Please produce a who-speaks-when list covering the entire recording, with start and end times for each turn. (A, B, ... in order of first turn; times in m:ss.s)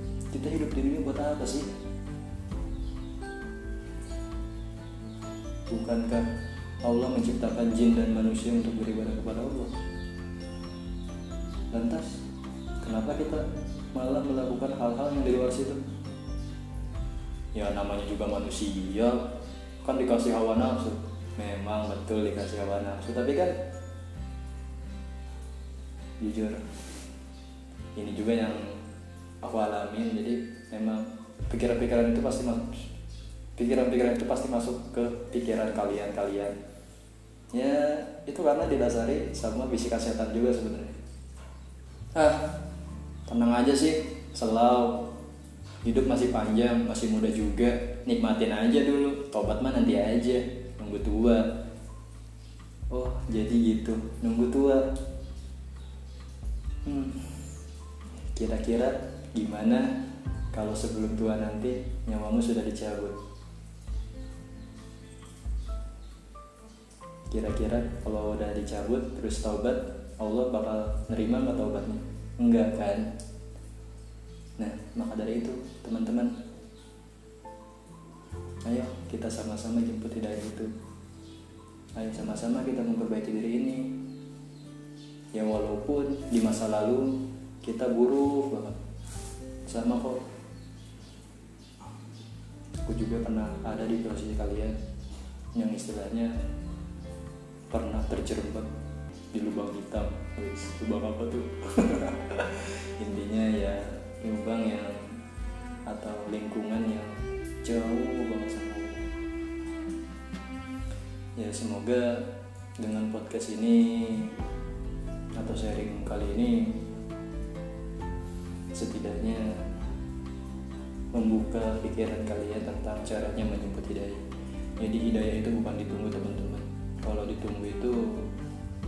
0:00.3-0:01.7 A
0:05.7-0:06.3 A
0:06.8-0:09.7 A
0:11.7-0:12.2 A
0:12.8-0:15.8 A
0:17.5-0:19.2 A
0:19.8-0:23.6 A
0:26.2-0:26.6 A
0:28.0-0:28.8 A
0:29.4-0:32.9 A
0:33.6-0:36.6 A
0:37.5-0:41.0 A
0:42.1-0:42.5 A
0:43.3-0:45.1 A
0:45.8-0:51.5 A
0:52.9-0:54.9 A
0:56.8-0:57.2 A
0:58.3-0:59.9 A
1:00.5-1:03.2 A
1:07.3-1:13.1 A
1:14.6-1:16.4 A
1:18.6-1:20.7 A
1:22.0-1:24.0 A
1:25.3-1:28.8 A
1:29.7-1:30.2 A
1:32.8-1:34.8 A
1:35.5-1:36.4 A
1:37.7-1:38.7 A
1:39.3-1:45.1 A
1:45.9-1:47.1 A
1:47.6-1:49.1 A
1:51.4-1:52.3 A
1:52.8-1:54.4 A
1:55.4-1:56.8 A
1:58.7-1:59.6 A
2:01.1-2:04.2 A
2:04.8-2:08.3 A